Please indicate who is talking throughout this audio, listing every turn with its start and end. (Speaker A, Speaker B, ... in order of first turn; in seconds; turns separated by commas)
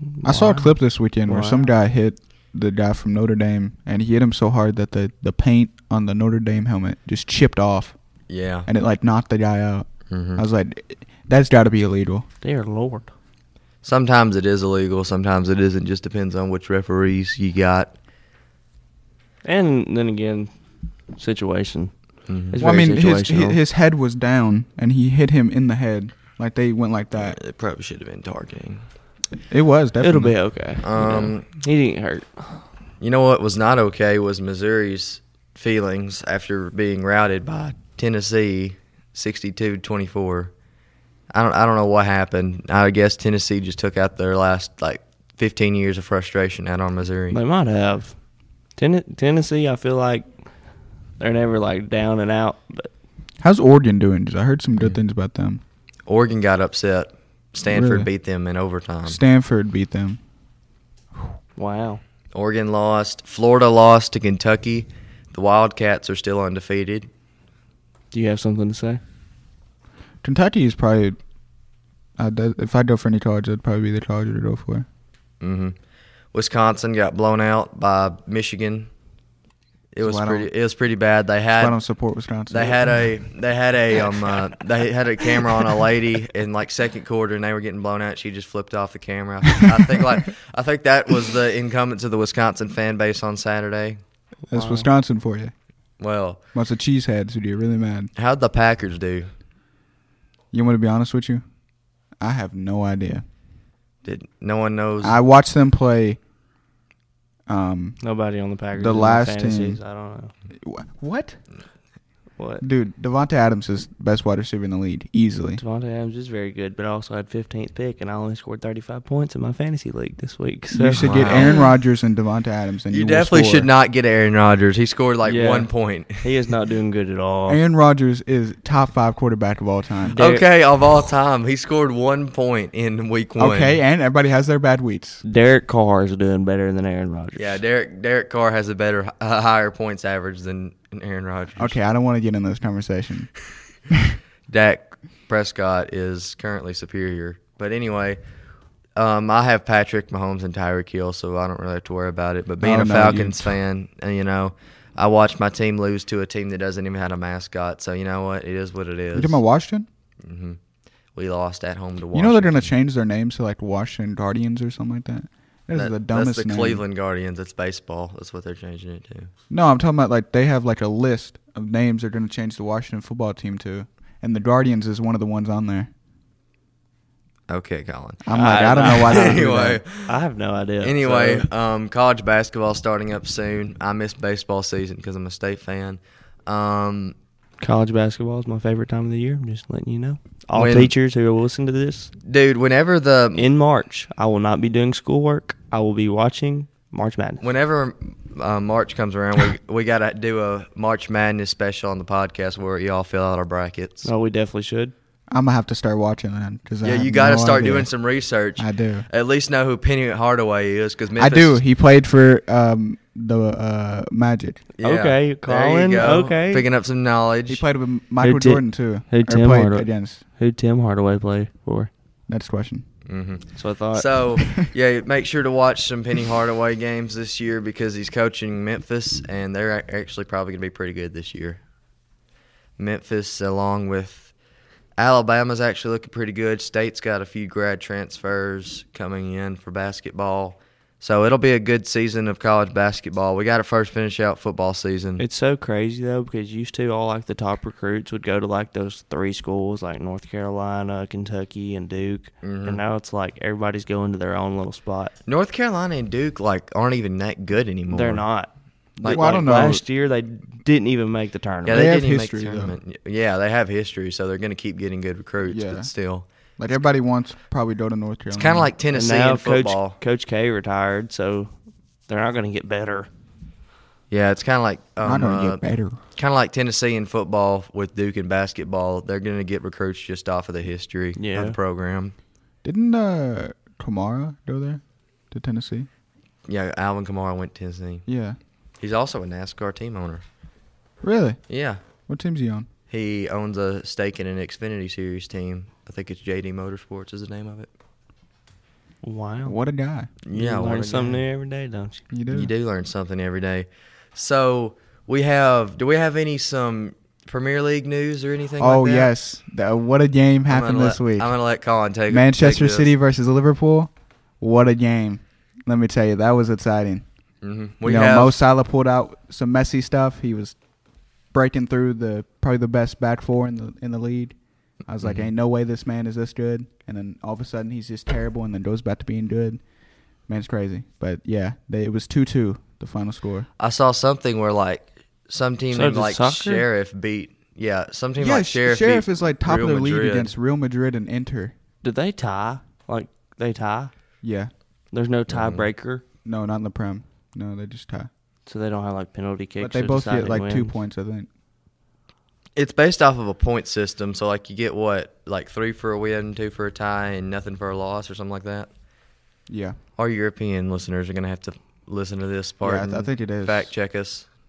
Speaker A: 0.1-1.7, Speaker B: 0.2-8.0, Speaker C: 8.3-8.7, Speaker B: 8.7-12.2, Speaker C: 10.1-10.4, Speaker A: 12.4-13.1, Speaker C: 13.8-17.9, Speaker A: 19.4-20.5, Speaker A: 21.1-21.9, Speaker C: 22.3-22.6, Speaker A: 22.5-23.6, Speaker B: 22.6-27.4, Speaker C: 27.2-28.8, Speaker B: 29.5-30.3, Speaker A: 30.0-32.6, Speaker C: 30.8-31.4, Speaker C: 33.0-40.5, Speaker C: 41.3-47.4, Speaker A: 47.3-48.1, Speaker A: 48.8-50.4, Speaker A: 51.2-52.9, Speaker B: 53.4-55.6, Speaker C: 56.1-59.2, Speaker B: 57.7-58.1, Speaker B: 59.0-60.2, Speaker A: 61.5-62.0, Speaker C: 62.3-67.1, Speaker A: 68.1-69.0, Speaker B: 70.2-71.2, Speaker B: 72.2-74.8, Speaker C: 75.4-75.7, Speaker C: 76.3-78.9, Speaker C: 79.9-81.8, Speaker B: 80.0-80.5, Speaker B: 81.5-83.1, Speaker C: 82.5-94.0, Speaker A: 94.5-94.9, Speaker B: 94.5-95.5, Speaker C: 96.0-96.4, Speaker B: 96.5-98.1, Speaker C: 98.1-99.3, Speaker B: 100.5-101.4, Speaker B: 102.2-103.2, Speaker C: 104.0-105.2, Speaker B: 105.0-106.2, Speaker B: 107.5-108.0, Speaker A: 108.0-110.3, Speaker B: 108.7-109.8, Speaker B: 110.5-111.4, Speaker A: 112.4-112.6, Speaker B: 112.6-115.6, Speaker A: 115.5-121.5, Speaker B: 120.7-123.7, Speaker C: 121.0-121.6, Speaker C: 122.9-126.2, Speaker A: 125.2-127.6, Speaker B: 127.5-130.2, Speaker A: 130.1-130.4, Speaker C: 130.2-133.8, Speaker B: 133.4-135.2, Speaker A: 135.2-137.6, Speaker C: 137.3-141.8, Speaker B: 141.6-143.3, Speaker B: 143.9-144.1, Speaker C: 144.5-148.2, Speaker C: 148.9-159.4, Speaker B: 152.6-153.6, Speaker B: 159.1-159.9, Speaker C: 160.2-160.6, Speaker C: 161.1-162.7, Speaker B: 162.1-166.8, Speaker C: 165.7-169.3, Speaker B: 169.5-175.9, Speaker C: 177.5-180.2, Speaker B: 178.2-179.8, Speaker A: 178.3-179.4, Speaker A: 180.1-181.5, Speaker C: 180.8-187.1, Speaker A: 187.6-192.1, Speaker C: 190.5-190.9, Speaker C: 192.2-193.5, Speaker A: 193.3-197.5, Speaker C: 197.4-204.1, Speaker A: 204.0-204.9, Speaker B: 205.3-207.9, Speaker C: 206.8-211.6, Speaker B: 208.6-209.1, Speaker B: 211.2-214.6, Speaker C: 214.8-217.6, Speaker A: 214.8-216.7, Speaker B: 217.5-220.2, Speaker A: 218.2-221.9, Speaker B: 222.3-222.8, Speaker C: 223.1-231.6, Speaker A: 223.5-224.1, Speaker C: 232.8-234.3, Speaker C: 235.0-245.2, Speaker A: 245.2-255.1, Speaker C: 252.4-252.8, Speaker C: 255.3-258.2, Speaker A: 257.9-261.9, Speaker C: 259.0-259.8, Speaker B: 259.0-259.8, Speaker C: 261.6-266.8, Speaker B: 261.7-262.7, Speaker B: 265.5-265.9, Speaker B: 266.6-268.7, Speaker C: 268.3-270.0, Speaker A: 268.9-271.5, Speaker A: 272.1-273.1, Speaker C: 274.1-282.1, Speaker B: 275.0-276.0, Speaker A: 281.1-281.6, Speaker B: 282.6-285.9, Speaker C: 286.5-288.0, Speaker B: 288.1-288.4, Speaker C: 288.8-290.2, Speaker B: 291.0-291.4, Speaker C: 291.5-291.8, Speaker B: 292.1-292.7, Speaker C: 292.9-297.7, Speaker A: 299.0-299.6, Speaker B: 299.4-300.1, Speaker C: 300.2-301.2, Speaker A: 300.3-302.0, Speaker B: 302.1-302.5, Speaker C: 302.3-309.2, Speaker B: 308.6-311.4, Speaker C: 310.5-312.9, Speaker B: 312.1-317.1, Speaker C: 317.4-318.4, Speaker B: 317.8-320.6, Speaker B: 321.3-329.6, Speaker C: 325.0-325.3, Speaker B: 330.2-333.5, Speaker C: 333.6-340.3, Speaker A: 335.7-336.6, Speaker B: 338.2-341.5, Speaker A: 341.8-343.9, Speaker B: 344.2-344.5, Speaker A: 344.9-346.0, Speaker C: 345.3-345.6, Speaker B: 346.2-348.1, Speaker A: 348.4-350.7, Speaker B: 349.6-351.3, Speaker C: 352.6-358.7, Speaker B: 359.5-359.7, Speaker C: 360.0-364.3, Speaker B: 362.6-363.7